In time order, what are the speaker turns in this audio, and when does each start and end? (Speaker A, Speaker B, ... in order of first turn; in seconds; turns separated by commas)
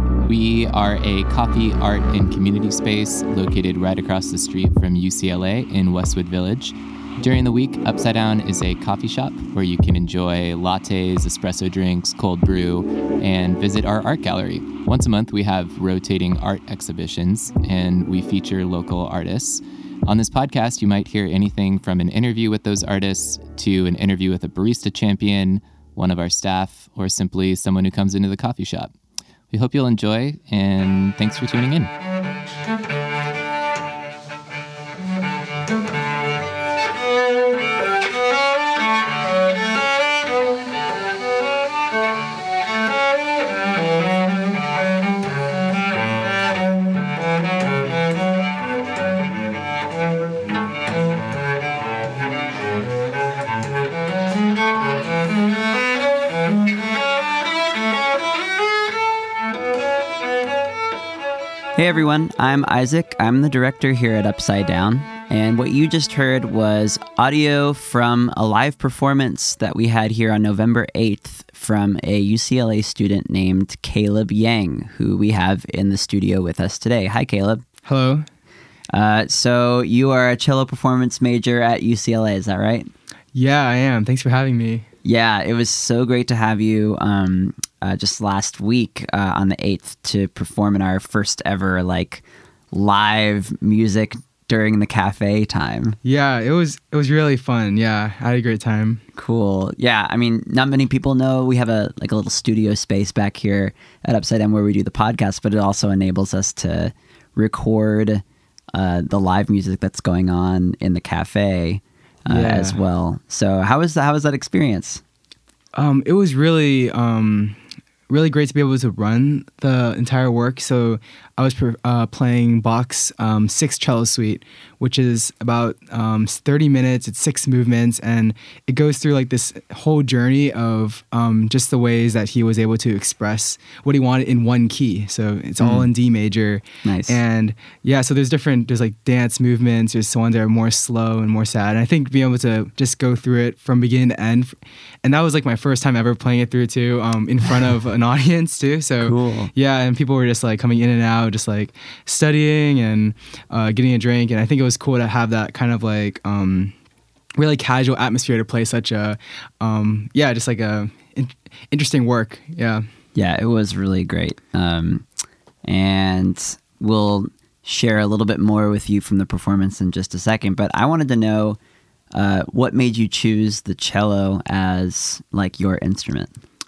Speaker A: 0.2-28.9, Speaker A: 29.5-31.9, Speaker B: 61.8-77.6, Speaker C: 77.8-78.3, Speaker B: 78.9-82.9, Speaker C: 83.3-84.8, Speaker B: 85.0-96.0, Speaker C: 96.0-99.0, Speaker B: 99.1-108.2, Speaker B: 108.7-115.0, Speaker C: 112.3-112.8, Speaker C: 115.8-156.7, Speaker B: 135.6-135.9, Speaker B: 136.8-137.2, Speaker B: 149.0-149.5, Speaker C: 157.4-162.8, Speaker B: 163.1-165.0, Speaker B: 165.6-171.6, Speaker B: 172.1-176.4